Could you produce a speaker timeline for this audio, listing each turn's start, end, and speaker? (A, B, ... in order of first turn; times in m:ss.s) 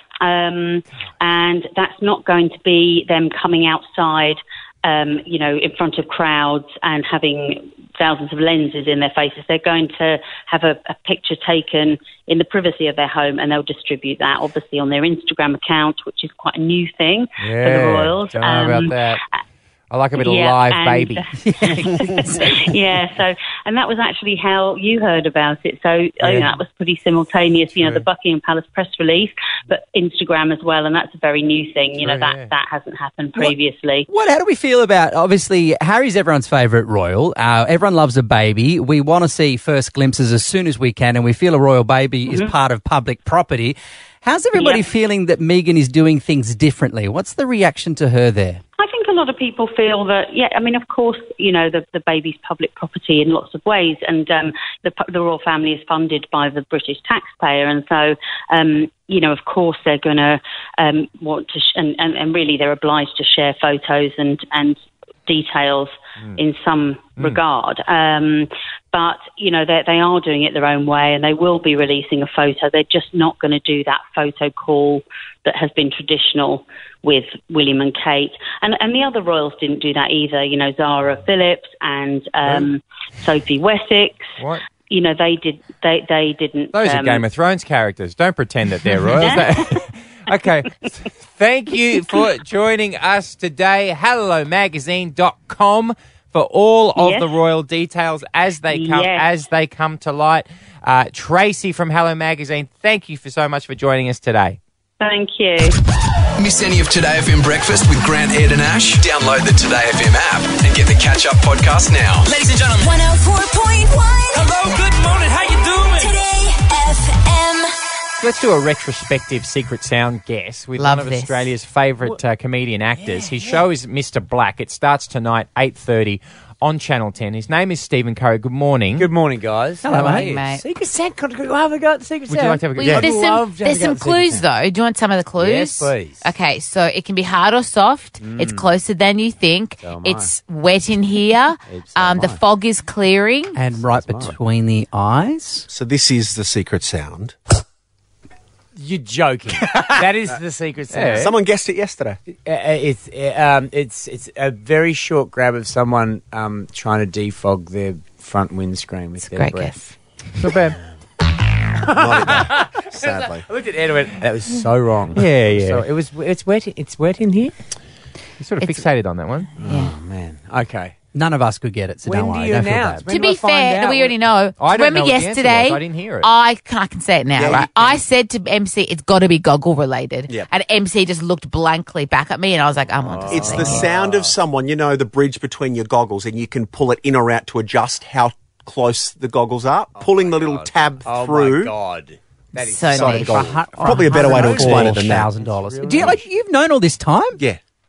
0:00.2-0:19.1 A
0:17.4-0:19.2 B
0:19.9-0:21.2 B
0:20.2-0:34.1 A
0:21.4-0:22.2 C
0:26.2-0:26.5 B
0:32.0-0:32.5 B
0:34.1-0:48.6 C
0:42.3-0:42.5 A
0:44.6-0:44.8 A
0:48.8-1:24.3 A
1:24.4-1:24.6 B
1:24.9-1:27.2 A
1:26.7-1:44.6 B
1:29.0-1:29.7 A
1:37.0-1:37.3 A
1:38.7-1:39.3 A
1:45.0-1:45.8 A
1:46.4-1:52.3 D
1:52.2-1:53.0 E
1:52.8-1:54.8 F
1:54.3-1:56.2 E
1:55.9-1:57.7 F
1:58.2-2:09.1 B
2:00.8-2:01.5 G
2:03.0-2:03.6 H
2:09.0-2:14.5 H
2:09.8-2:10.3 C
2:09.9-2:10.6 G
2:12.3-2:13.0 B
2:12.8-2:23.6 G
2:15.4-2:16.2 H
2:18.2-2:18.7 H
2:19.8-2:20.3 H
2:21.7-2:22.4 H
2:23.6-2:25.6 C
2:23.7-2:24.4 H
2:25.7-2:27.3 I
2:28.8-2:31.3 H
2:30.9-2:31.2 B
2:31.1-2:32.2 I
2:32.3-2:40.7 H
2:39.2-2:39.9 G
2:40.4-2:40.7 B
2:41.8-2:47.6 H
2:41.9-2:43.4 I
2:45.1-2:45.8 B
2:48.4-2:49.5 B
2:49.6-2:49.9 G
2:49.6-2:51.0 H
2:51.1-2:53.1 C
2:52.0-2:54.2 H
2:53.1-3:03.9 G
2:54.6-2:56.3 B
2:57.4-2:57.7 I
3:03.0-3:04.4 H
3:03.3-3:11.7 I
3:10.0-3:16.2 H
3:12.6-3:13.3 G
3:12.9-3:15.3 I
3:13.3-3:17.4 C